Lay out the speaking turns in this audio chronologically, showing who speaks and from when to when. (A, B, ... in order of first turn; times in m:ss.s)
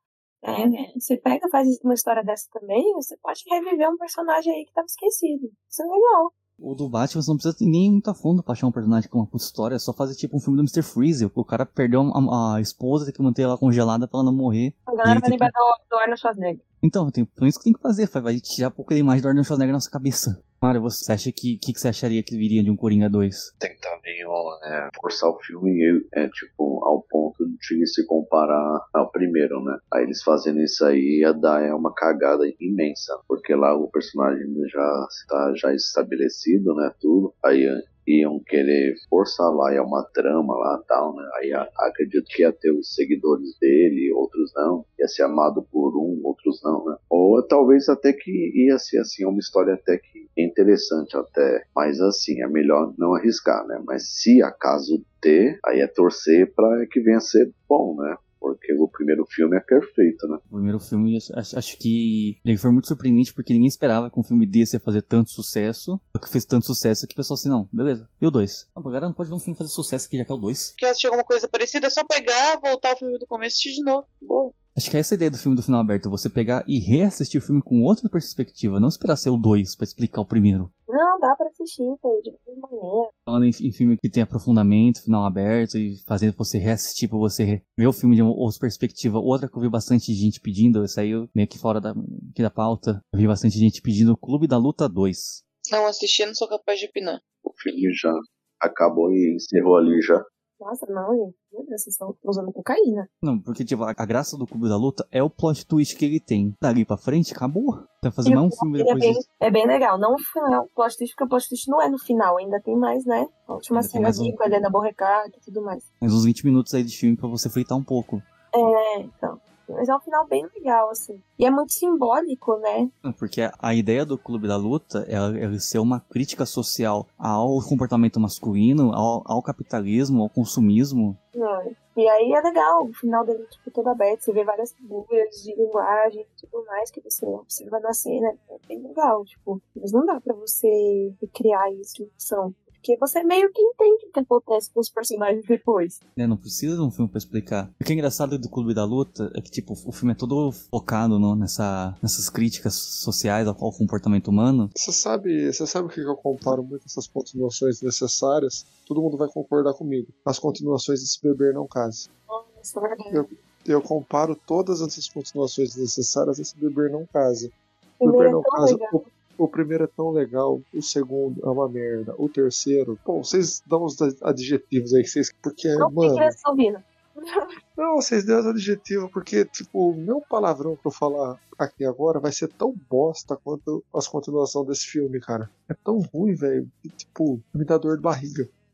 0:00.4-0:06.3 A
0:06.6-0:15.5 B
0:14.9-0:16.6 A
0:16.8-0:23.5 B
0:23.6-1:00.4 C
1:00.5-1:10.7 B
1:10.8-1:14.5 D
1:14.8-1:20.7 B
1:20.9-1:23.1 A
1:23.3-1:35.4 B
1:35.7-1:37.2 D
1:37.5-1:40.2 C
1:40.6-1:43.1 A
1:43.2-1:49.2 B
1:48.2-1:55.8 A
1:53.7-1:54.4 B
1:56.0-1:58.3 B
1:58.5-2:02.9 A
2:03.0-2:11.2 B
2:11.4-2:26.0 A
2:26.2-2:34.7 B
2:34.8-2:42.1 E
2:42.3-2:43.3 A
2:43.1-2:47.5 E
2:48.0-2:49.1 A
2:48.0-2:56.4 E
2:55.8-2:57.5 A
2:57.8-3:08.5 E